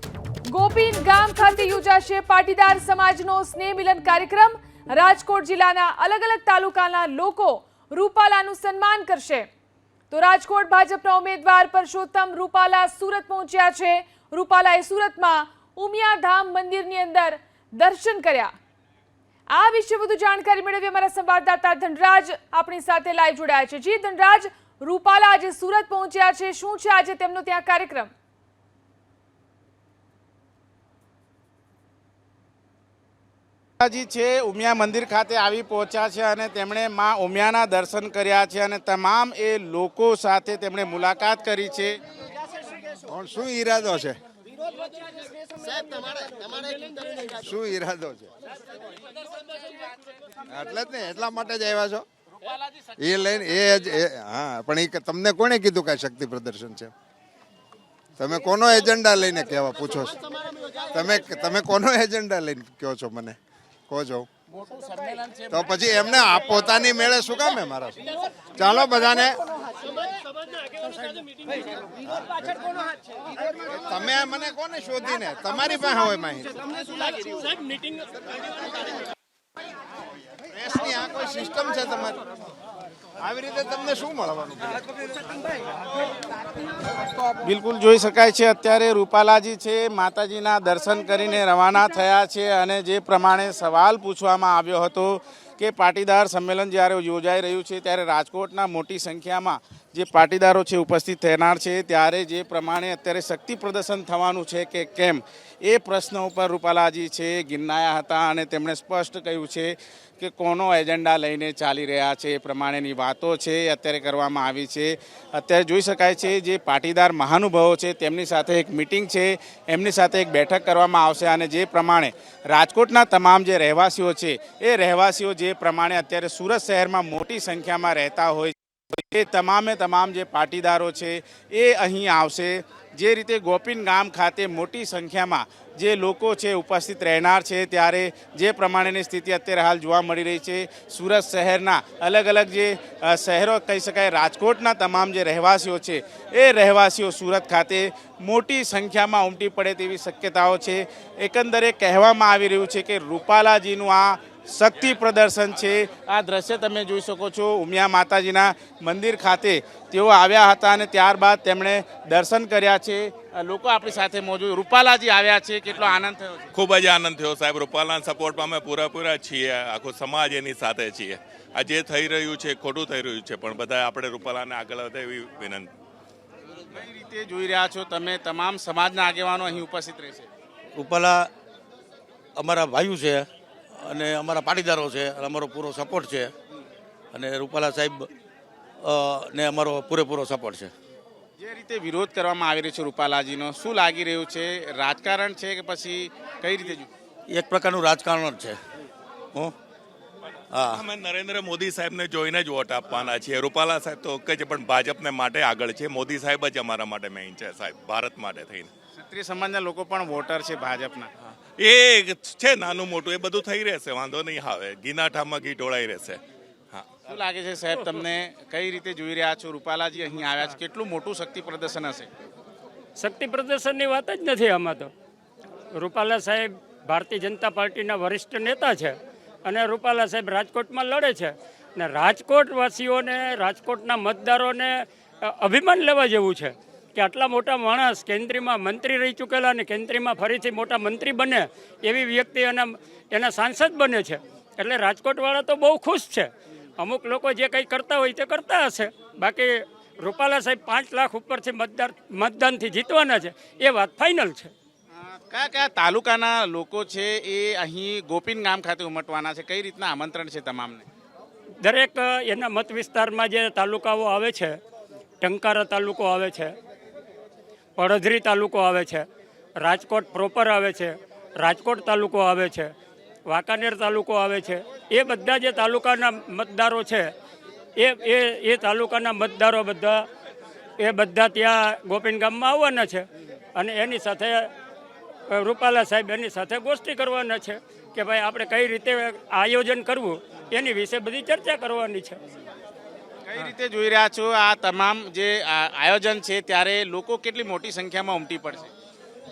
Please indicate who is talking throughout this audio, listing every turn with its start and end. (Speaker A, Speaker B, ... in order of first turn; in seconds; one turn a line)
Speaker A: 0.5-9.5
Speaker A: 10.1-18.5
Speaker A: 19.5-28.1
Speaker B: 33.8-42.0
Speaker C: 43.1-44.2
Speaker C: 47.2-48.3
Speaker C: 50.5-52.0
Speaker C: 53.0-56.9
Speaker C: 58.2-60.2
Speaker C: 60.9-63.4
Speaker C: 63.9-64.3
Speaker C: 65.5-69.4
Speaker C: 72.1-72.6
Speaker C: 73.8-76.6
Speaker C: 80.5-82.2
Speaker C: 83.2-84.8
Speaker B: 87.4-166.5
Speaker D: 166.5-175.7
Speaker B: 176.7-180.3
Speaker E: 180.7-181.3
Speaker E: 182.4-183.2
Speaker E: 183.8-186.3
Speaker E: 187.1-188.1
Speaker E: 188.8-190.7
Speaker B: 191.4-196.9
Speaker E: 197.3-198.6
Speaker D: 200.6-208.7
Speaker B: 209.0-211.1
Speaker D: 211.6-216.2
Speaker B: 217.1-222.1
Speaker F: 223.0-224.9
Speaker F: 225.8-254.5
Speaker B: 254.9-260.9
Speaker F: 261.6-264.6
Speaker F: 265.2-266.5
Speaker F: 267.8-269.1
Speaker F: 269.6-272.7
Speaker F: 273.3-277.1
Speaker F: 277.8-280.1
Speaker F: 280.8-284.5
Speaker F: 285.3-292.2
Speaker B: 293.3-298.7